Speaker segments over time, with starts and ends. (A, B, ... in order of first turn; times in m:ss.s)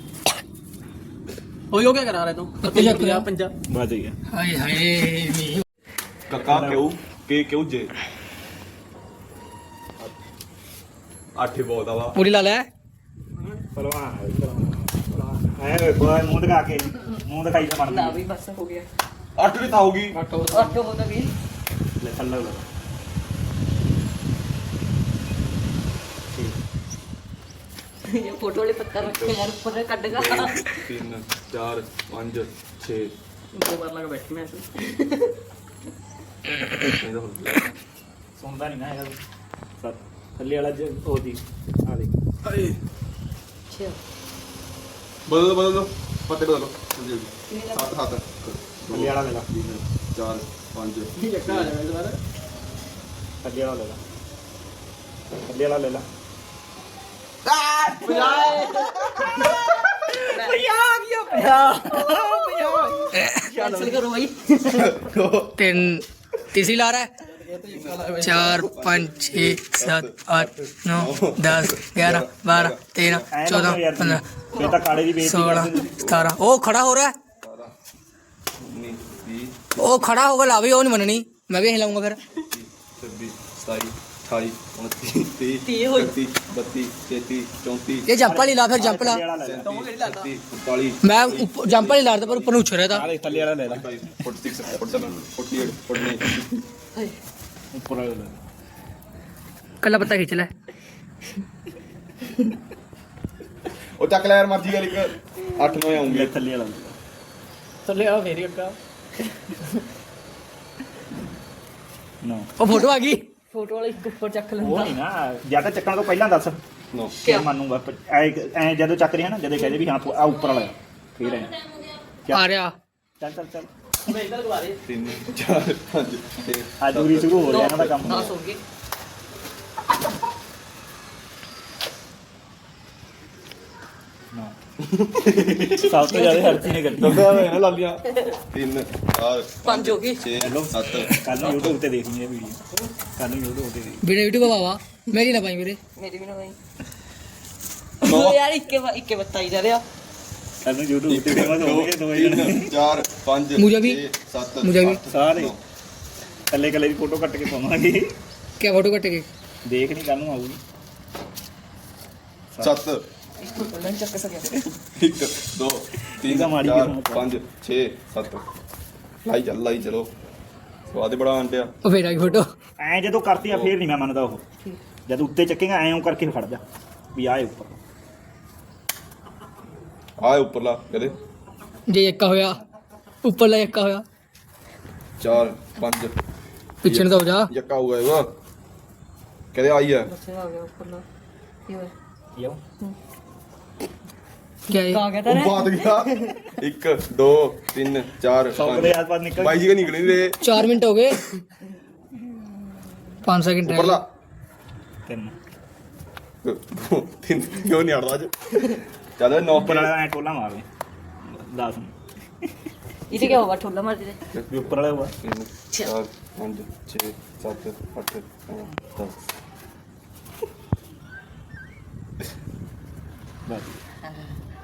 0:01.7-0:03.5 A
0:02.6-0:03.3 B
0:03.7-0:04.2 C
0:04.3-0:05.6 B
0:06.3-0:07.9 D
0:06.4-0:06.8 C
0:11.3-0:12.2 D
0:12.1-0:12.7 B
0:13.8-0:18.2 C
0:17.9-0:18.9 E
0:19.4-0:20.2 D
0:20.1-0:20.7 A
0:20.5-0:21.3 E
0:22.0-0:22.6 C
0:28.1-0:30.8 E
0:29.0-0:29.4 D
0:30.1-0:33.1 D
0:33.5-0:34.7 A
0:36.8-0:37.8 D
0:38.4-0:39.2 C
0:39.8-0:42.1 C
0:42.4-0:42.8 D
0:43.7-0:44.0 E
0:45.3-0:51.8 D
0:47.5-0:48.0 E
0:48.9-0:49.5 C
0:51.2-0:52.2 A
0:53.4-0:54.0 C
0:55.4-0:56.0 C
0:57.9-0:59.2 D
0:58.0-0:58.9 A
0:58.1-0:58.4 C
1:00.3-1:03.1 C
1:03.1-1:03.6 B
1:03.3-1:05.0 E
1:03.6-1:03.9 D
1:04.7-1:05.8 D
1:05.6-1:07.1 B
1:07.4-1:08.5 A
1:07.7-1:13.2 D
1:08.2-1:14.2 B
1:13.3-1:16.0 C
1:15.2-1:17.1 B
1:16.0-1:16.4 D
1:17.4-1:17.7 D
1:18.6-1:20.1 D
1:19.8-1:22.2 B
1:22.4-1:28.1 D
1:25.6-1:26.2 E
1:28.1-1:29.2 B
1:28.2-1:29.7 C
1:29.4-1:36.6 D
1:29.6-1:30.3 A
1:31.0-1:33.1 B
1:32.9-1:33.9 C
1:37.7-1:38.4 C
1:39.8-1:40.5 B
1:44.0-1:46.3 D
1:46.0-1:47.0 C
1:47.8-1:48.8 A
1:52.2-1:52.5 C
1:52.6-1:53.2 B
1:53.5-1:54.9 E
1:54.6-1:56.6 C
1:56.9-1:57.2 D
1:57.2-2:01.6 C
2:02.3-2:02.7 B
2:03.2-2:03.7 C
2:04.0-2:04.8 A
2:04.8-2:08.4 D
2:06.8-2:08.3 C
2:07.4-2:08.6 E
2:14.8-2:16.3 D
2:15.8-2:17.5 C
2:16.1-2:16.8 E
2:17.0-2:21.8 D
2:19.6-2:20.3 E
2:20.4-2:22.6 C
2:23.2-2:24.0 C
2:24.0-2:25.8 B
2:26.0-2:26.6 E
2:28.0-2:29.8 E
2:28.0-2:28.4 D
2:30.6-2:32.7 C
2:31.1-2:35.6 D
2:33.6-2:34.0 B
2:34.6-2:35.0 B
2:35.1-2:35.5 C
2:36.5-2:38.1 C
2:38.6-2:39.3 B
2:39.6-2:40.6 C
2:42.6-2:43.0 D
2:43.4-2:44.7 E
2:45.0-2:48.4 D
2:46.2-2:47.3 C
2:49.2-2:50.1 D
2:50.9-2:52.4 D
2:51.8-2:52.5 B
2:52.8-2:54.4 C
2:53.4-2:53.7 D
2:55.1-2:56.6 C
2:57.1-2:57.8 C
3:00.2-3:01.2 D
3:01.9-3:02.6 B
3:03.2-3:04.0 B
3:05.2-3:06.2 D
3:06.8-3:07.5 B
3:06.8-3:08.3 D
3:09.5-3:10.1 D
3:10.0-3:11.0 E
3:14.7-3:16.4 E
3:14.7-3:15.1 B
3:15.2-3:20.4 D
3:18.6-3:19.8 C
3:20.4-3:21.2 B
3:23.2-3:24.0 B
3:23.6-3:24.0 D
3:25.1-3:25.4 C
3:26.4-3:29.9 D
3:29.5-3:30.6 C
3:31.3-3:32.5 C
3:33.1-3:34.2 E
3:33.1-3:33.4 D
3:34.3-3:39.2 D
3:34.6-3:35.1 C
3:43.5-3:43.7 C